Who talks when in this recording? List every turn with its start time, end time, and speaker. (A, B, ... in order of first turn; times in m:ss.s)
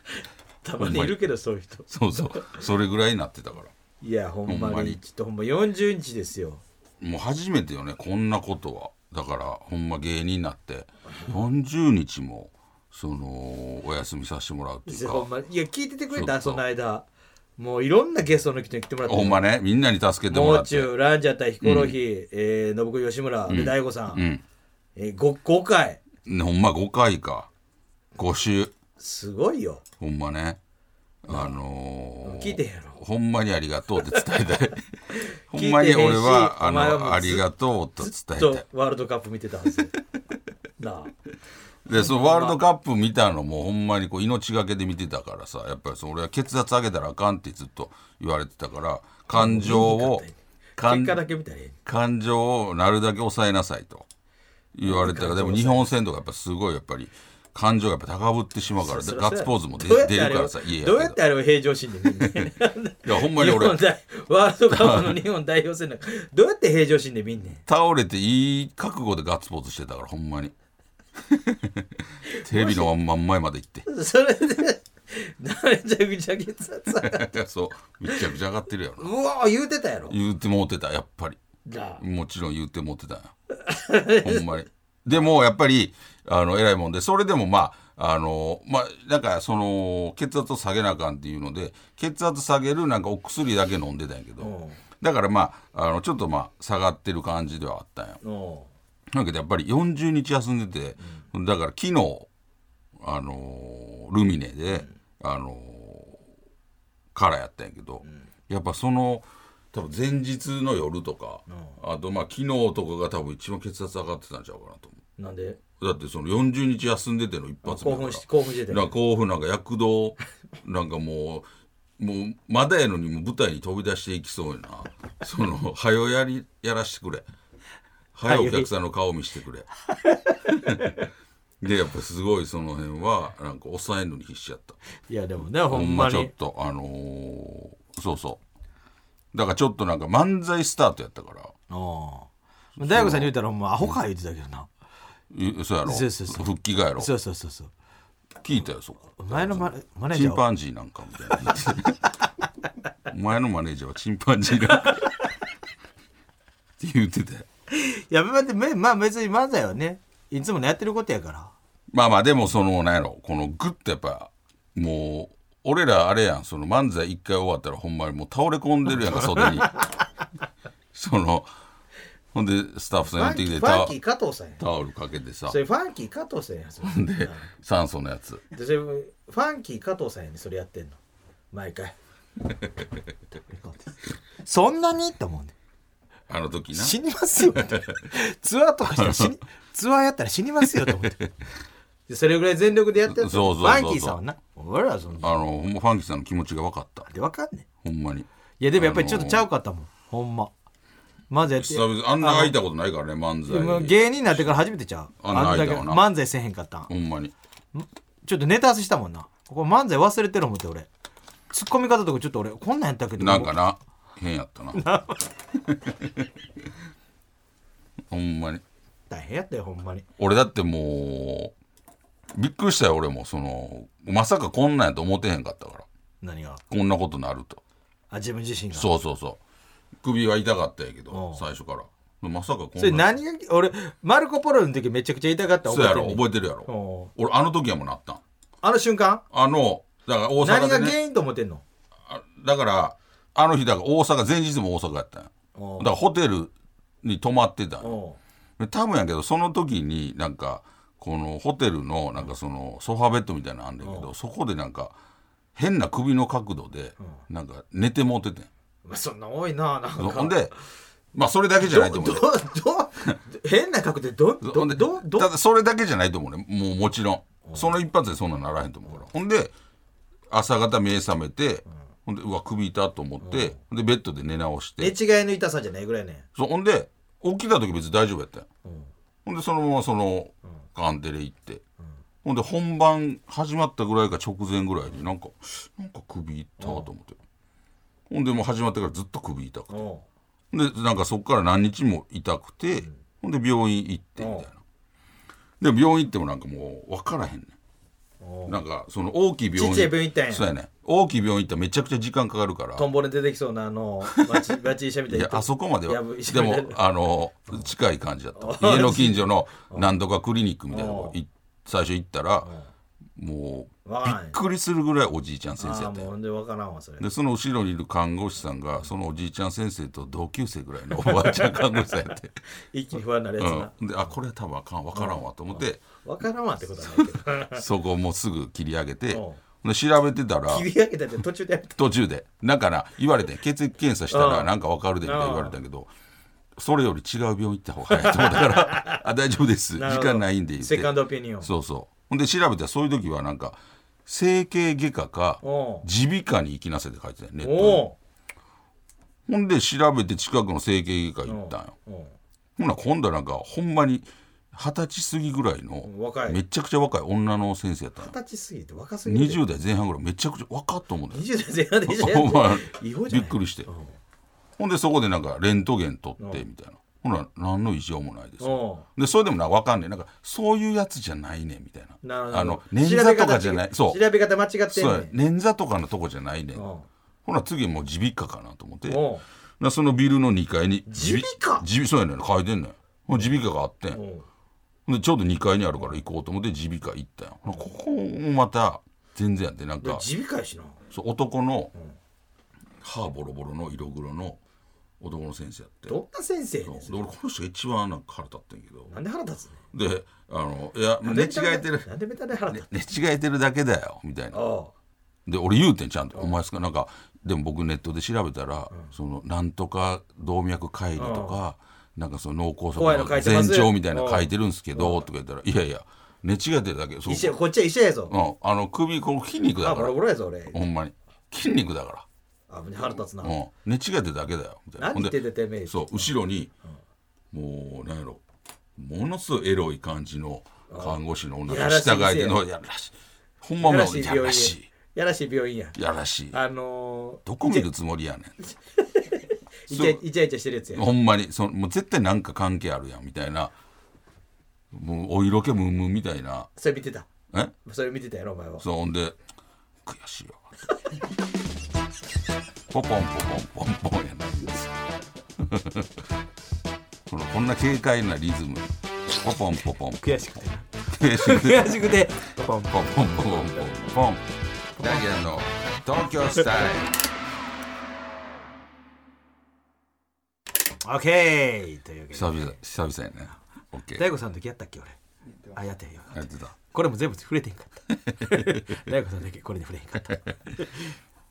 0:00.6-0:02.6 A
0:00.8-0:01.2 B
0:01.9-0:03.7 B
0:04.0-0:06.6 A
0:04.5-0:05.0 B
0:07.0-0:15.3 B
0:14.9-0:19.4 A
0:16.1-0:16.6 B
0:19.0-0:20.9 B
0:20.3-0:24.2 A
0:21.6-0:22.0 B
0:23.5-0:24.4 B
0:25.0-0:26.0 A
0:26.3-0:27.5 B
0:28.2-0:28.8 B
0:29.0-0:29.8 A
0:30.0-0:30.6 B
0:31.2-0:34.8 B
0:31.3-0:31.6 A
0:32.2-0:33.0 A
0:35.2-0:37.5 A
0:35.5-0:38.6 B
0:38.0-0:40.0 A
0:40.8-0:41.1 A
0:41.8-0:50.2 B
0:41.9-0:42.6 A
0:49.3-0:51.8 A
0:50.8-0:51.2 B
0:51.8-0:54.1 B
0:54.7-1:01.2 B
0:54.8-0:55.9 A
0:58.8-1:07.6 A
1:02.1-1:02.5 B
1:03.0-1:03.8 B
1:04.7-1:05.2 B
1:07.7-1:10.5 B
1:11.2-1:13.9 B
1:12.3-1:12.9 A
1:13.9-1:17.3 A
1:16.9-1:19.1 B
1:19.0-1:20.2 A
1:20.1-1:21.4 B
1:21.7-1:22.0 A
1:22.0-1:23.3 B
1:23.6-1:24.4 A
1:24.2-1:38.2 B
1:34.4-1:34.8 A
1:38.2-1:38.7 A
1:39.1-1:42.3 B
1:43.0-1:46.2 B
1:47.1-1:55.0 B
1:51.5-1:51.8 A
1:55.2-1:55.6 A
1:55.8-2:01.5 B
1:57.6-1:58.9 A
2:02.0-2:07.3 B
2:08.1-2:09.7 B
2:08.2-2:08.7 A
2:10.0-2:11.0 A
2:10.5-2:11.0 B
2:11.6-2:14.8 B
2:15.1-2:16.3 A
2:15.6-2:18.4 B
2:19.3-2:21.5 B
2:21.7-2:22.3 A
2:22.8-2:24.0 B
2:22.8-2:24.7 A
2:25.3-2:27.1 B
2:25.9-2:27.7 A
2:28.4-2:32.1 B
2:29.2-2:30.4 A
2:33.1-2:35.1 B
2:34.8-2:35.0 A
2:36.8-2:37.5 B
2:37.7-2:41.5 A
2:41.9-2:49.8 B
2:49.2-2:49.8 A
2:50.9-2:51.5 B
2:52.3-2:54.0 B
2:53.2-2:54.6 A
2:54.6-2:55.6 B
2:55.5-2:57.5 A
2:56.8-2:58.4 B
2:58.5-3:01.0 A
3:01.5-3:02.0 A
3:03.3-3:05.6 A
3:06.3-3:07.0 B
3:06.7-3:11.2 A
3:07.5-3:08.0 B
3:09.0-3:09.3 B
3:10.6-3:11.3 B
3:12.1-3:15.4 A
3:13.1-3:14.2 B
3:15.2-3:17.1 B
3:17.1-3:17.7 A
3:17.8-3:19.5 B
3:18.6-3:20.5 A
3:21.3-3:22.6 A
3:21.6-3:24.6 B
3:23.5-3:26.9 A
3:25.2-3:26.1 B
3:26.9-3:27.3 B
3:27.7-3:30.9 A
3:31.5-3:33.6 A
3:33.2-3:34.8 B
3:34.7-3:35.2 A
3:35.7-3:36.3 B
3:38.1-3:38.6 B
3:39.1-3:40.1 A
3:40.2-3:41.5 B
3:42.3-3:45.9 B
3:46.2-3:46.6 A
3:46.7-3:47.6 B
3:48.1-3:48.9 A
3:48.7-3:49.4 B
3:50.0-3:53.2 B
3:51.1-3:51.4 A
3:52.8-3:57.1 A
3:55.6-3:58.2 B
3:58.6-3:59.2 A
3:59.3-4:01.0 B
4:00.4-4:01.6 A
4:02.1-4:06.5 B
4:05.6-4:05.9 A
4:07.0-4:08.0 B
4:07.8-4:08.2 A
4:08.6-4:15.0 B
4:13.8-4:14.1 A
4:15.6-4:18.5 B
4:18.9-4:20.5 A
4:20.0-4:20.5 B
4:21.1-4:22.3 B
4:21.6-4:25.3 A
4:24.4-4:29.5 B
4:27.4-4:27.7 A
4:30.3-4:35.0 B
4:33.2-4:33.6 A
4:34.8-4:36.2 A
4:36.4-4:38.5 B
4:38.6-4:38.9 A
4:39.2-4:41.6 B
4:42.2-4:47.2 B
4:46.6-4:46.9 A
4:48.1-4:49.8 B
4:49.7-4:50.0 A
4:50.5-4:54.6 B
4:54.2-4:54.5 A
4:55.6-4:57.6 B
4:58.2-4:58.6 A
4:58.5-5:02.9 B
4:59.6-5:00.5 A
5:02.8-5:06.8 A
5:04.1-5:04.5 B
5:05.1-5:12.5 B
5:08.4-5:09.9 A
5:10.7-5:11.2 A
5:12.4-5:12.7 A
5:13.2-5:16.1 B
5:13.8-5:14.4 A
5:15.6-5:17.1 A
5:17.0-5:22.4 B
5:21.0-5:21.7 A
5:22.5-5:23.7 A
5:23.4-5:25.8 B
5:25.0-5:27.6 A
5:26.8-5:30.7 B
5:29.1-5:29.4 A
5:30.5-5:31.8 A
5:31.8-5:35.9 B
5:34.1-5:34.5 A
5:35.0-5:35.6 A
5:36.6-5:47.8 B
5:37.9-5:39.0 A
5:39.8-5:41.5 A
5:45.4-5:45.9 A
5:47.4-5:48.0 A
5:49.3-5:51.8 B
5:51.3-5:52.1 A
5:52.6-5:58.1 B
5:55.8-5:56.4 A
5:58.0-5:59.4 A
5:59.1-6:01.2 B
6:01.1-6:04.0 A
6:01.9-6:03.7 B
6:04.6-6:14.0 B
6:08.4-6:08.8 A
6:12.0-6:15.1 A
6:14.7-6:16.6 B
6:16.6-6:16.9 A
6:17.2-6:19.0 B
6:18.9-6:19.2 A
6:19.6-6:24.0 B
6:20.9-6:21.6 A
6:23.9-6:24.3 A
6:24.9-6:30.0 B
6:29.8-6:30.8 A
6:30.9-6:31.7 B
6:32.8-6:34.4 B
6:35.0-6:36.0 B
6:35.9-6:37.1 A
6:36.6-6:38.9 B
6:38.9-6:39.6 A
6:39.7-6:41.9 B
6:41.0-6:42.7 A
6:42.5-6:44.4 B
6:44.3-6:44.7 A
6:45.3-6:57.4 B
6:51.0-6:51.4 A
6:52.8-6:55.0 A
6:57.1-6:58.1 A
6:58.1-7:02.1 B
6:59.6-7:00.6 A
7:02.5-7:03.4 A
7:03.2-7:06.5 B
7:04.8-7:06.1 A
7:07.3-7:08.2 B
7:08.8-7:14.7 B
7:10.7-7:12.4 A
7:13.6-7:15.8 A
7:15.8-7:16.4 B
7:16.3-7:17.7 A
7:17.2-7:18.4 B
7:19.0-7:20.9 A
7:19.7-7:20.0 B
7:20.7-7:23.5 B
7:24.7-7:26.5 B
7:26.6-7:27.1 A
7:27.6-7:28.6 A
7:28.6-7:29.2 B
7:29.8-7:30.4 B
7:32.7-7:34.7 B
7:35.4-7:36.1 B
7:37.1-7:40.3 B
7:40.0-7:42.8 A
7:40.9-7:42.1 B
7:42.7-7:44.2 B
7:44.8-7:45.1 A
7:44.8-7:47.1 B
7:50.8-7:52.6 A
7:52.1-7:54.1 B
7:54.0-7:55.0 A
7:55.5-8:00.8 A
7:56.1-7:56.5 B
7:58.1-7:58.6 B